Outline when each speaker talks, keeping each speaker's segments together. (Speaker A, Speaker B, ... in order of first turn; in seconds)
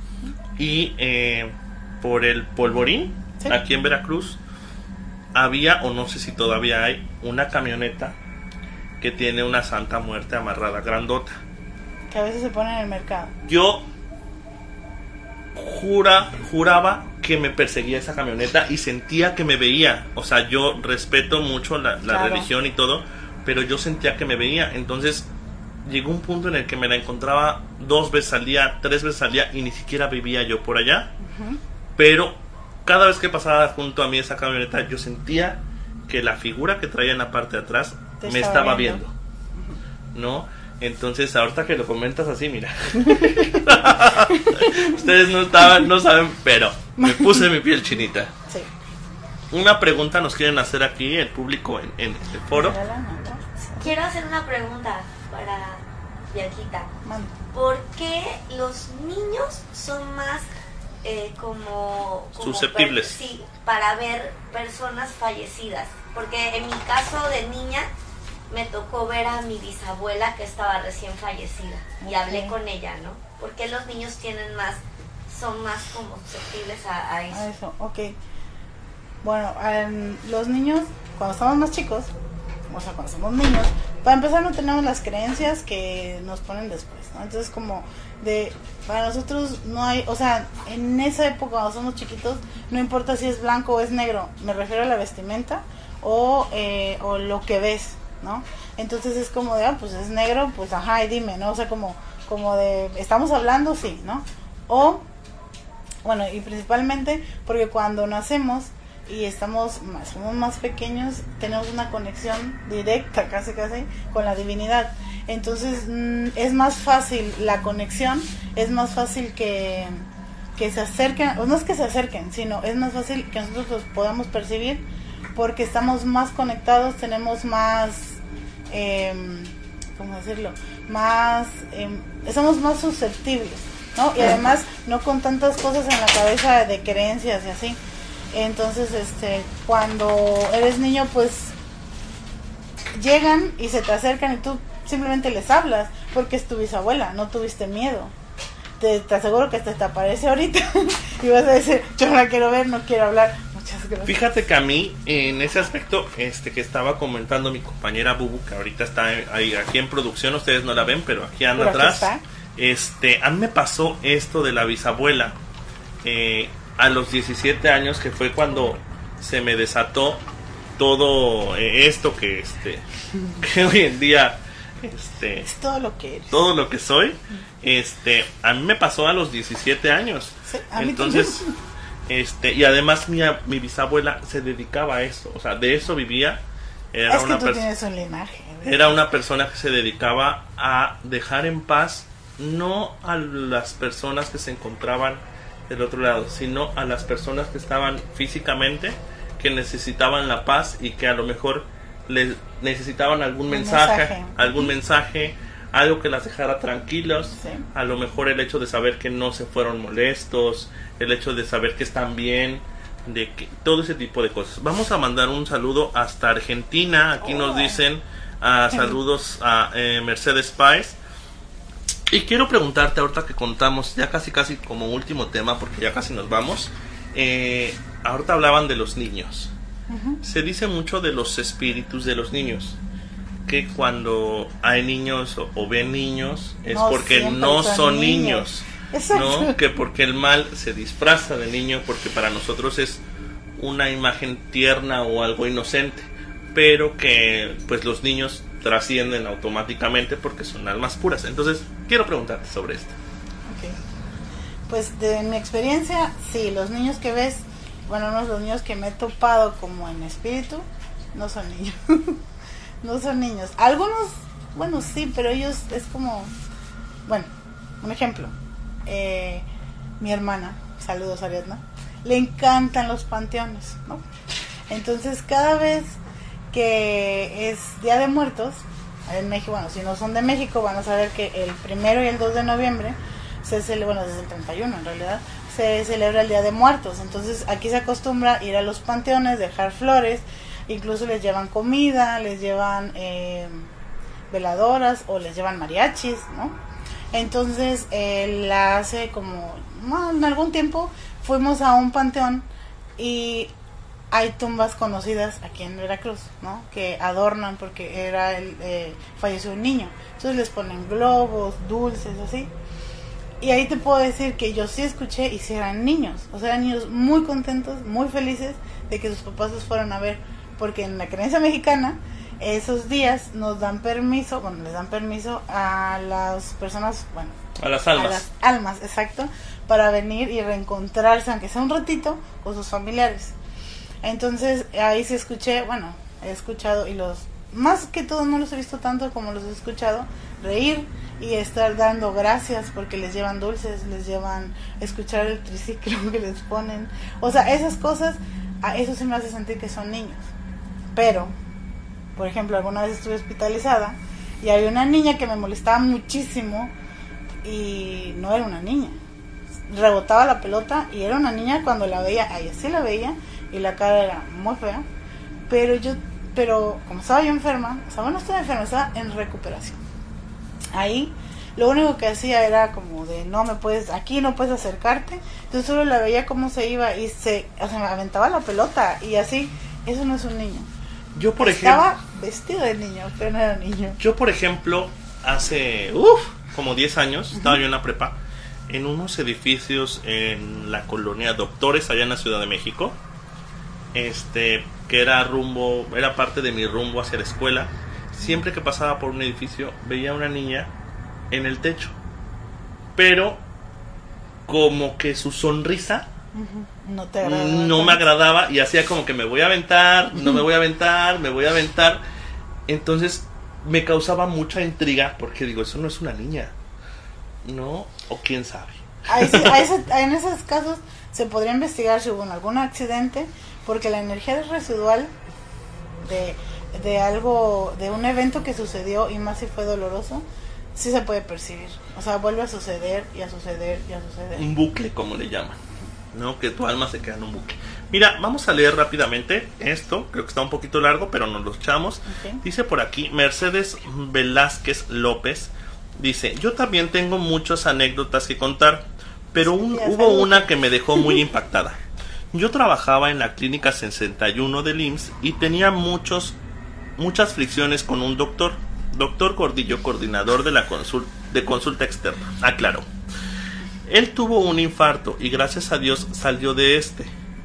Speaker A: 0.6-4.4, 5.3-8.2, 9.0-11.4, 13.5-13.8, 15.6-25.3, 25.9-31.1, 32.0-39.1, 40.1-48.3, 49.5-52.8, 62.4-63.2, 154.1-165.4, 166.0-170.2, 170.8-172.8, 173.4-175.5, 176.3-181.5, 182.1-186.4, 186.9-187.7, 188.6-221.0, 222.1-229.5, 230.2-232.8, 233.5-243.0, 243.6-253.0, 327.6-328.2, 381.1-381.8, 384.0-388.2, 388.7-393.0, 393.9-400.7, 401.3-402.0, 403.0-403.4, 404.5-406.1, 407.2-412.0, 412.7-416.5, 417.4-419.6, 434.4-435.6, 436.1-451.8, 452.3-456.4, 457.0-462.9, 463.9-467.1
Speaker B: 12.1-13.3, 22.1-22.5, 31.2-31.6, 38.2-39.0, 43.0-43.7, 44.3-45.1, 47.0-47.5, 48.5-48.7, 52.5-53.9, 57.0-57.3, 72.0-72.5, 77.3-78.2, 79.2-82.1, 82.7-105.1, 106.0-120.0, 120.6-137.8, 138.3-141.6, 142.9-148.1, 148.8-154.2, 161.6-162.2, 168.5-168.8, 175.4-176.4, 180.5-181.6, 187.1-189.0, 203.5-204.7, 207.4-207.7, 217.2-217.8, 218.7-219.0, 229.9-230.2, 236.7-239.6, 253.5-253.8, 254.7-262.2, 262.8-266.3, 267.8-268.3, 268.9-269.5, 270.0-274.0, 274.7-276.0, 276.5-293.7, 294.3-296.6, 297.1-302.5, 303.0-303.5, 304.1-312.5, 313.4-327.4, 327.9-333.4, 334.0-350.3, 350.9-351.3, 352.2-356.7, 357.4-359.0, 359.7-364.9, 365.5-369.8, 370.7-380.7, 381.4-384.0, 406.3-408.1, 419.1-425.1, 426.0-434.5, 442.1-442.4, 449.4-451.2
Speaker C: 53.8-56.9, 57.5-60.5, 61.0-67.9, 68.5-77.4